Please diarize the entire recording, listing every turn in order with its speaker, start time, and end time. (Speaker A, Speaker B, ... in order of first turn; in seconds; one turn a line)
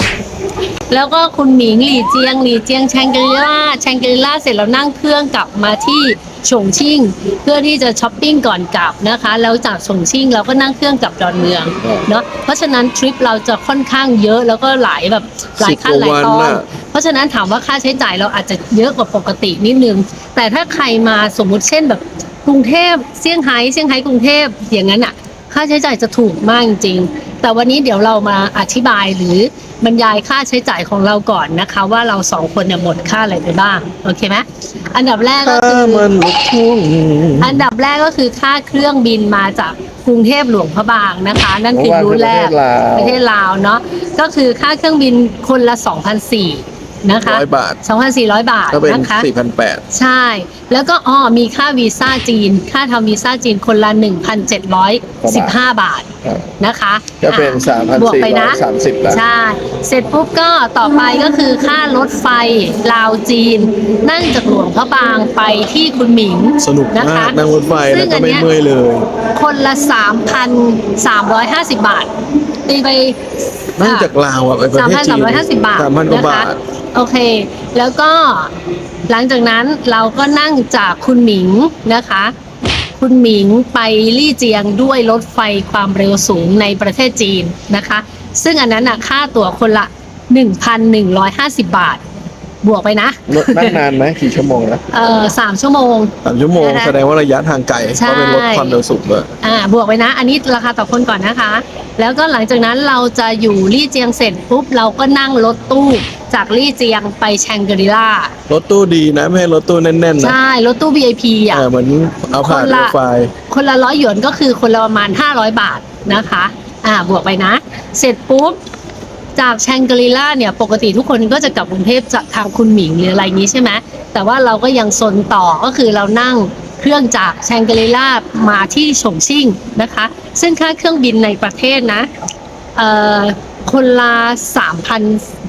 Speaker A: 0.9-36.1
Speaker B: 15.6-16.6
Speaker B: 35.4-37.6
Speaker A: 37.4-49.3
Speaker B: 41.7-43.2
Speaker B: 47.2-47.8
Speaker B: 48.7-49.8
Speaker A: 49.9-68.5
Speaker B: 55.2-55.6
Speaker B: 56.2-56.5
Speaker B: 57.2-59.2
Speaker B: 66.6-69.1
Speaker A: 69.3-72.1
Speaker A: 72.7-73.2
Speaker B: 73.8-76.6
Speaker A: 73.8-74.1
Speaker A: 74.7-78.5
Speaker A: 79.1-82.3
Speaker A: 83.0-92.0
Speaker A: 92.6-93.8
Speaker B: 93.3-94.8
Speaker A: 94.9-96.9
Speaker B: 96.2-99.3
Speaker A: 97.9-98.8
Speaker A: 99.4-108.3
Speaker B: 108.5-110.4
Speaker A: 110.2-111.7
Speaker B: 111.5-113.3
Speaker A: 112.4-112.9
Speaker A: 113.5-118.6
Speaker A: 119.3-132.1
Speaker A: 132.8-135.2